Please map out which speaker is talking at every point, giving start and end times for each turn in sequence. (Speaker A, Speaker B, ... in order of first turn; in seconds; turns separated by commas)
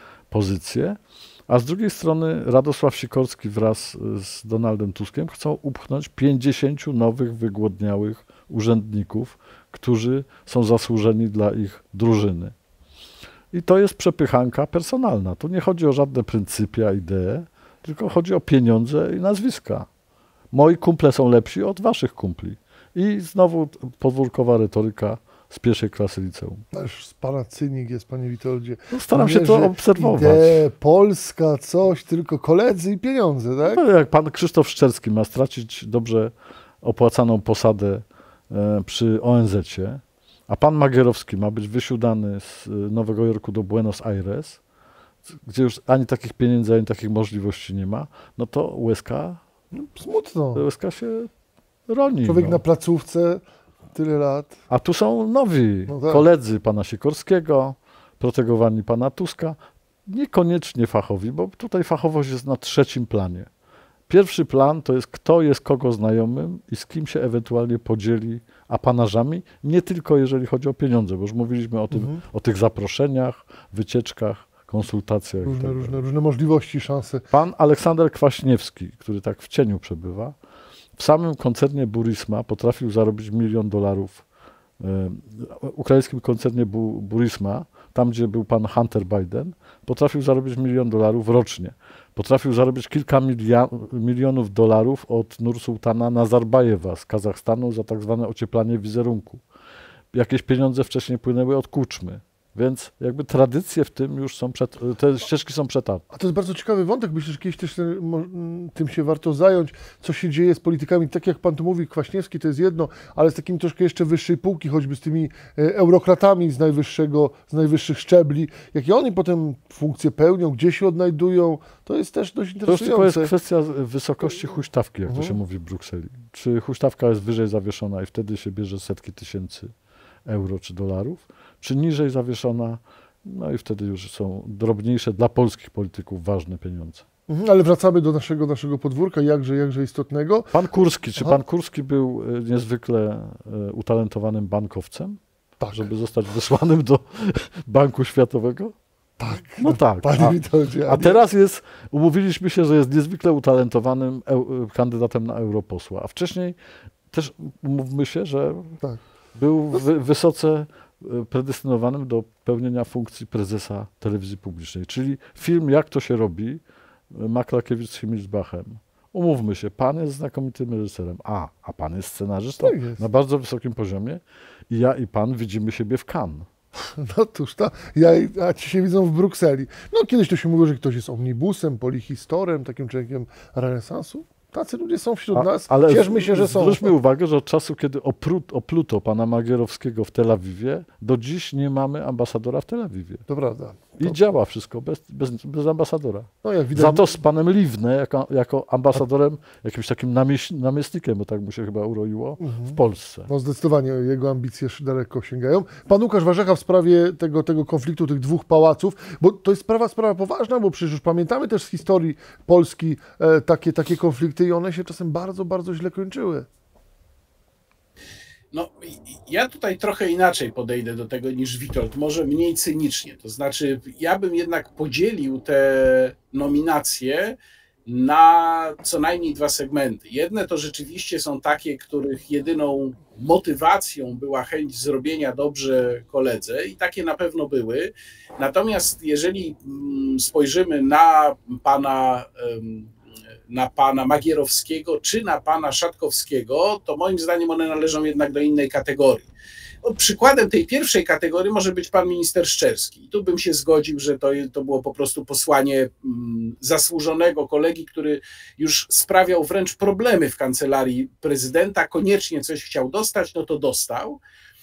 Speaker A: 0.3-12.5, Speaker A: 13.5-19.9, Speaker A: 20.5-26.6, Speaker B: 26.7-33.8, Speaker A: 28.9-30.6, Speaker A: 33.6-44.6, Speaker A: 45.3-49.4, Speaker B: 49.7-50.6, Speaker A: 50.5-51.3, Speaker A: 51.9-52.6, Speaker B: 52.2-54.6, Speaker A: 54.7-63.5, Speaker B: 55.9-56.2, Speaker A: 64.1-76.0, Speaker B: 71.9-72.2, Speaker B: 75.4-77.3, Speaker A: 77.3-80.3, Speaker A: 81.0-84.2, Speaker A: 84.8-99.4, Speaker A: 100.1-106.0, Speaker B: 106.1-123.3, Speaker A: 122.7-129.7, Speaker B: 125.1-125.4, Speaker A: 130.2-137.0, Speaker B: 137.3-140.6, Speaker A: 140.5-145.2, Speaker B: 145.6-145.9, Speaker A: 145.7-148.7, Speaker B: 149.2-151.2, Speaker A: 149.6-156.6, Speaker A: 157.1-158.8, Speaker A: 159.3-176.5, Speaker B: 172.6-173.0, Speaker B: 176.9-186.9, Speaker A: 185.3-193.2, Speaker B: 193.3-194.2, Speaker A: 194.0-203.3, Speaker B: 196.4-197.1, Speaker B: 202.4-216.5, Speaker C: 218.5-242.9, Speaker C: 243.5-249.3, Speaker C: 249.8-264.2